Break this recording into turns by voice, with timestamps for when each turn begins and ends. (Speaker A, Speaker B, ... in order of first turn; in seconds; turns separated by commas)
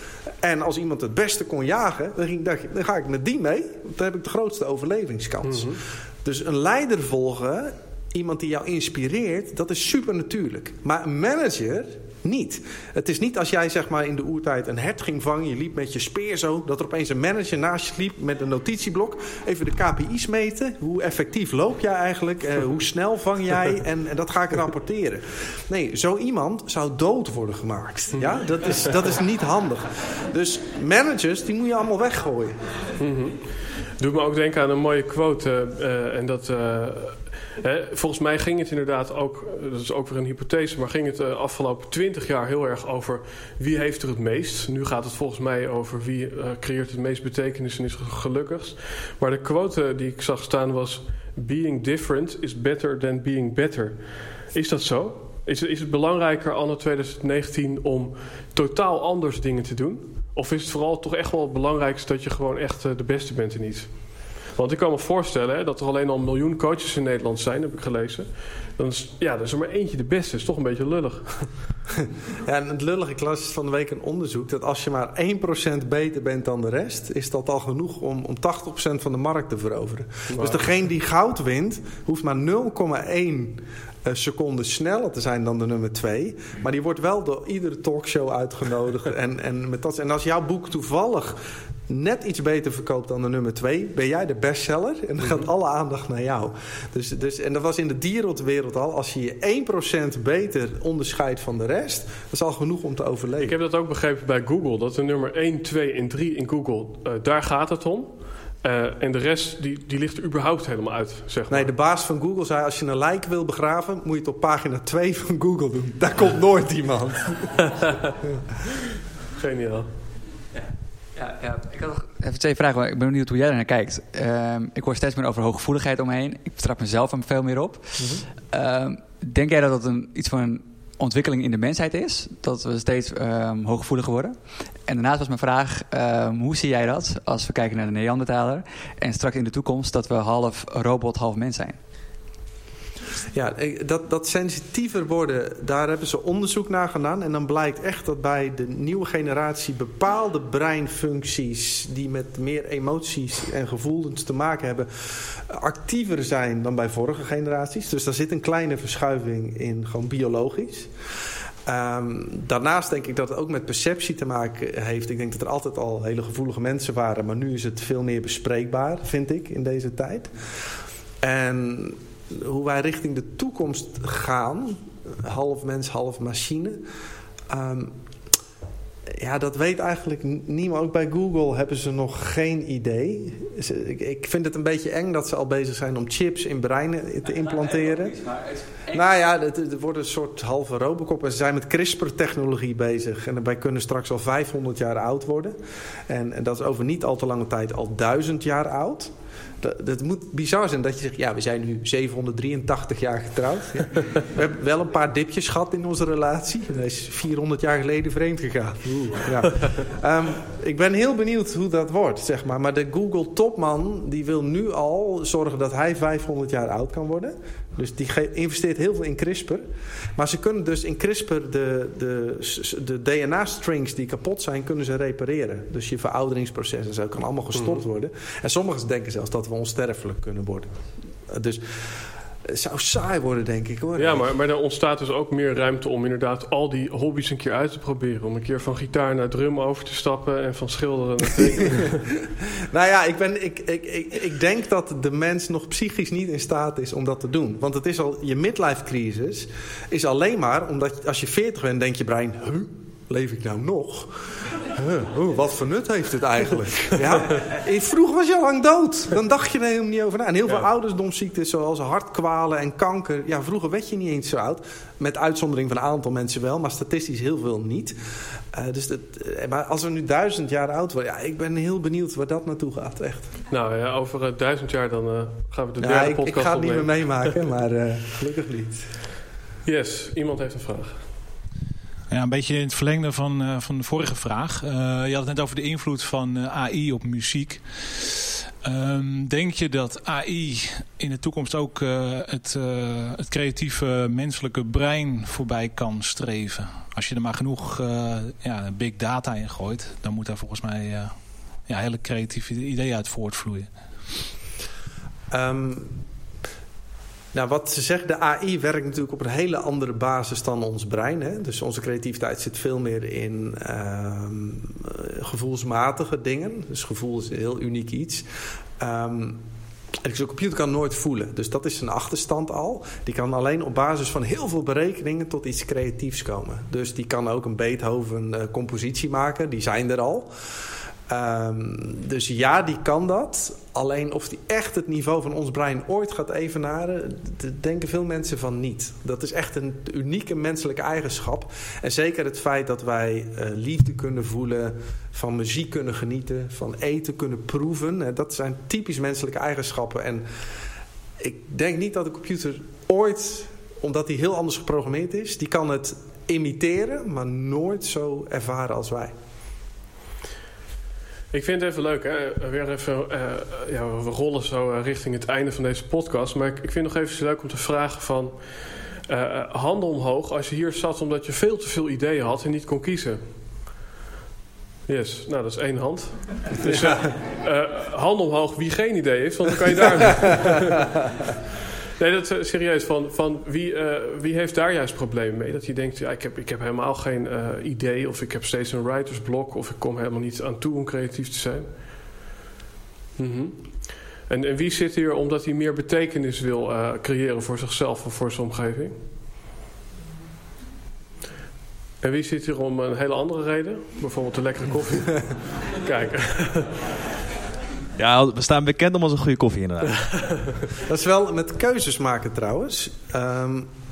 Speaker A: 0.4-32.6, Speaker B: 5.5-5.8, Speaker B: 33.0-33.4, Speaker B: 34.0-54.0, Speaker B: 54.5-63.9, Speaker B: 64.5-71.5, Speaker A: 72.0-103.6, Speaker B: 80.3-80.7, Speaker B: 103.4-108.1, Speaker B: 108.6-111.7, Speaker A: 111.5-117.5, Speaker B: 119.4-119.9, Speaker C: 120.5-141.8, Speaker A: 128.0-128.2, Speaker A: 143.3-160.9, Speaker A: 161.7-170.3, Speaker A: 171.2-176.8, Speaker A: 177.5-177.9, Speaker A: 179.1-188.2, Speaker C: 187.4-189.0, Speaker A: 188.9-195.6, Speaker A: 196.1-230.7, Speaker B: 227.6-227.8, Speaker A: 231.3-234.3, Speaker B: 234.0-242.0, Speaker A: 241.7-268.0, Speaker A: 268.5-273.3, Speaker B: 273.5-277.4, Speaker A: 275.8-278.9, Speaker B: 279.6-281.0, Speaker D: 282.1-303.7, Speaker A: 305.3-306.0, Speaker A: 307.3-318.3, Speaker A: 318.8-319.4, Speaker A: 320.0-330.3, Speaker A: 331.1-350.3, Speaker A: 351.2-359.1, Speaker B: 361.3-368.4, Speaker B: 369.1-373.2, Speaker B: 374.9-380.8, Speaker A: 376.7-377.0, Speaker B: 382.0-391.7, Speaker B: 393.2-399.0, Speaker B: 402.0-406.8, Speaker E: 408.0-410.1, Speaker A: 410.8-413.7